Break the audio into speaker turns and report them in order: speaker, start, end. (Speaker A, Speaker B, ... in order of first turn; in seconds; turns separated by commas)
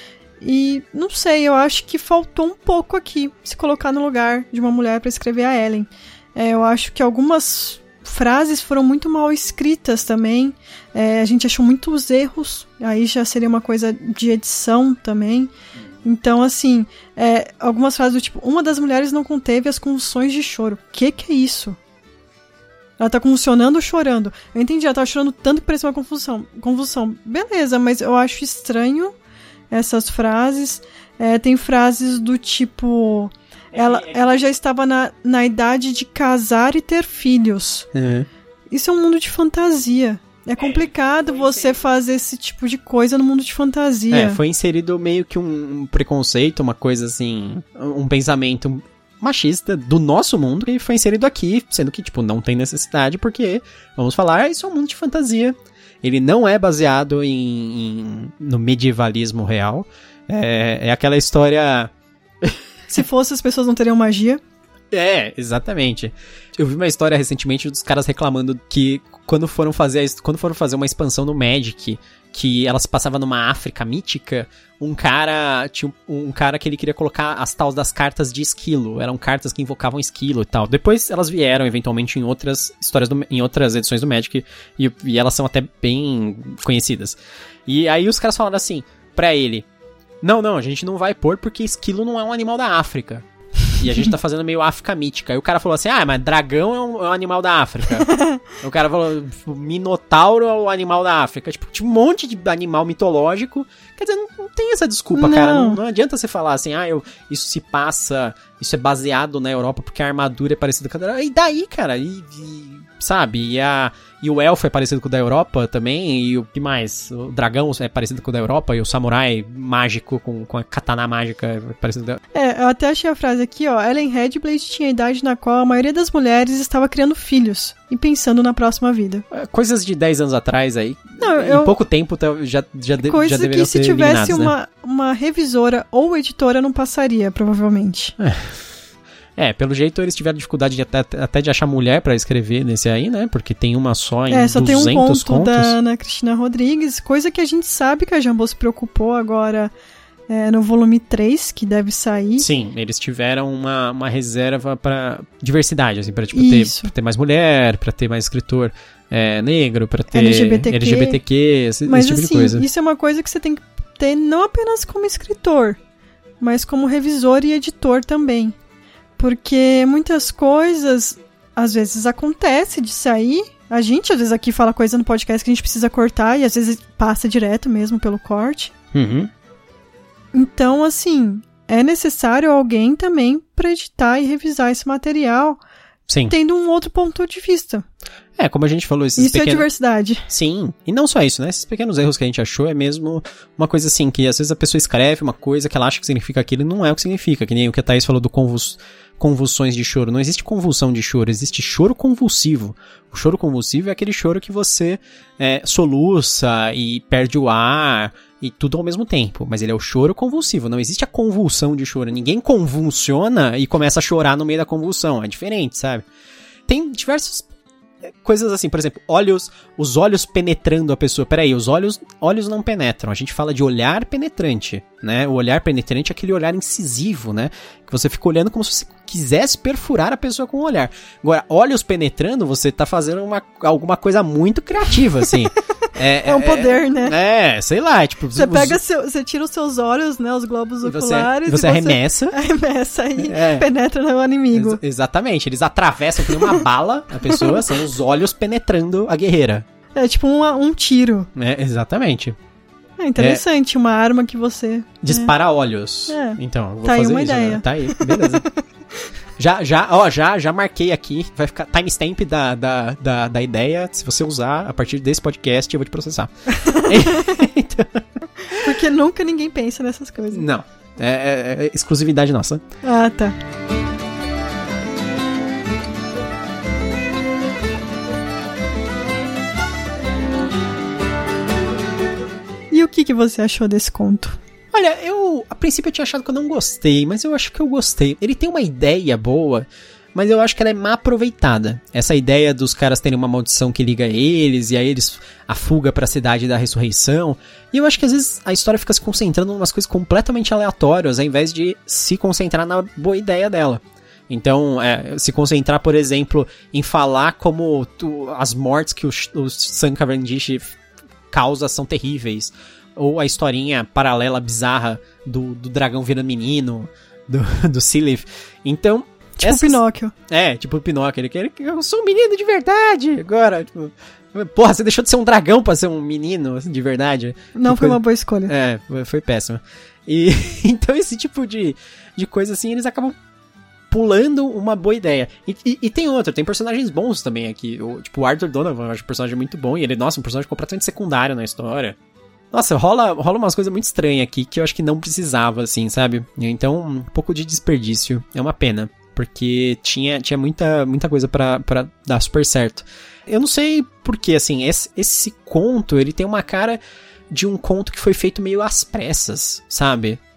Speaker A: 0.4-15.5, Speaker A: 16.0-21.8, Speaker A: 23.0-29.1, Speaker A: 29.7-37.9, Speaker B: 33.7-34.5, Speaker B: 37.9-38.3, Speaker A: 38.7-44.4, Speaker B: 40.6-41.8, Speaker B: 44.1-61.9, Speaker A: 62.9-64.4, Speaker B: 64.9-89.7, Speaker B: 90.2-122.2, Speaker A: 98.0-98.4, Speaker A: 105.2-105.8, Speaker A: 122.3-129.2, Speaker B: 129.3-134.5, Speaker A: 131.2-131.8, Speaker A: 133.1-138.2, Speaker B: 138.2-138.5, Speaker B: 139.4-145.8, Speaker A: 144.3-149.7, Speaker A: 150.3-152.5, Speaker B: 152.4-162.7, Speaker A: 156.3-156.9, Speaker A: 160.1-161.2, Speaker A: 161.9-165.8, Speaker A: 166.4-168.6, Speaker A: 169.2-178.7, Speaker B: 178.9-179.3, Speaker A: 180.3-185.6, Speaker B: 186.1-186.3, Speaker A: 186.3-187.8, Speaker B: 188.4-189.7, Speaker A: 189.2-190.3, Speaker B: 190.3-216.1, Speaker B: 216.7-217.5, Speaker B: 218.2-238.8, Speaker A: 236.2-237.2, Speaker A: 238.3-244.8, Speaker B: 240.8-242.4, Speaker B: 243.2-243.7, Speaker B: 244.5-249.7, Speaker A: 246.3-246.6, Speaker A: 247.3-247.8, Speaker A: 249.9-251.3, Speaker B: 251.3-252.4, Speaker A: 253.0-255.3, Speaker B: 255.0-258.4, Speaker A: 256.1-258.6, Speaker B: 259.4-268.0, Speaker A: 266.5-267.4, Speaker A: 268.4-270.4, Speaker B: 270.3-272.6, Speaker A: 272.8-273.4, Speaker A: 282.7-284.4, Speaker B: 284.7-310.7, Speaker B: 311.3-333.1, Speaker A: 319.4-320.1, Speaker A: 327.6-328.5, Speaker B: 333.9-342.0, Speaker B: 342.5-356.8, Speaker B: 357.3-360.2